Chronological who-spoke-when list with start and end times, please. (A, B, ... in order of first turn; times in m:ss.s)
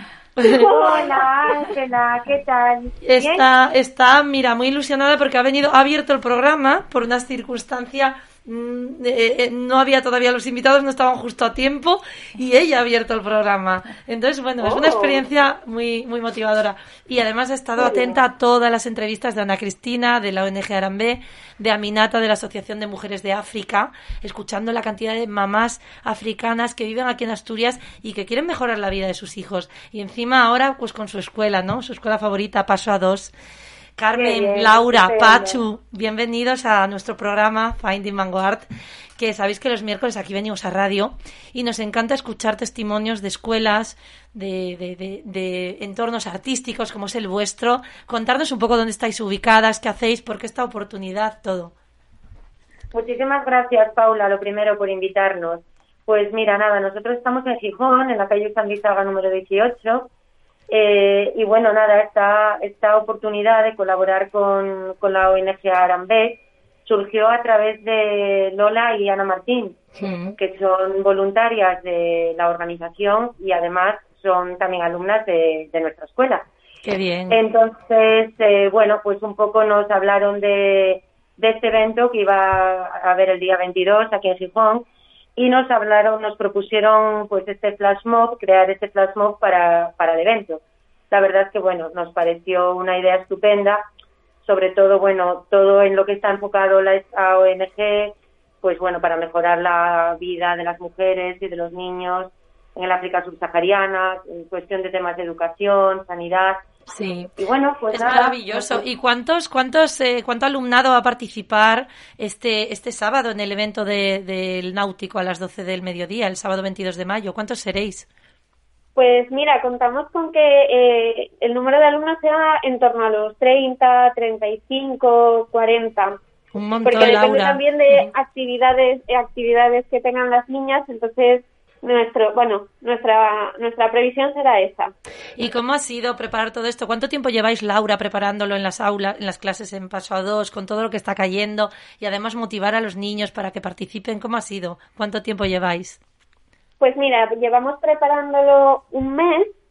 0:00.4-0:00.6 A
0:00.4-0:03.4 B
0:00.5-0:01.7 C
0:03.0-0:33.3 A
0:14.7-0:15.2 C
0:17.8-0:18.1 C
0:34.0-0:38.7 A
0:34.1-0:35.6 B
0:39.2-0:51.7 A
0:52.9-1:00.1 B
1:00.7-1:09.8 B
1:10.0-1:10.4 A
1:10.4-1:16.5 B
1:16.8-1:17.4 A
1:17.3-1:33.8 B
1:34.4-1:46.6 B
1:46.9-1:47.3 A
1:47.4-1:48.8 B
1:47.9-1:58.1 A
1:59.0-2:06.2 C
2:06.5-2:08.1 A
2:06.8-2:14.9 C
2:15.4-2:26.0 A
2:26.8-2:29.6 C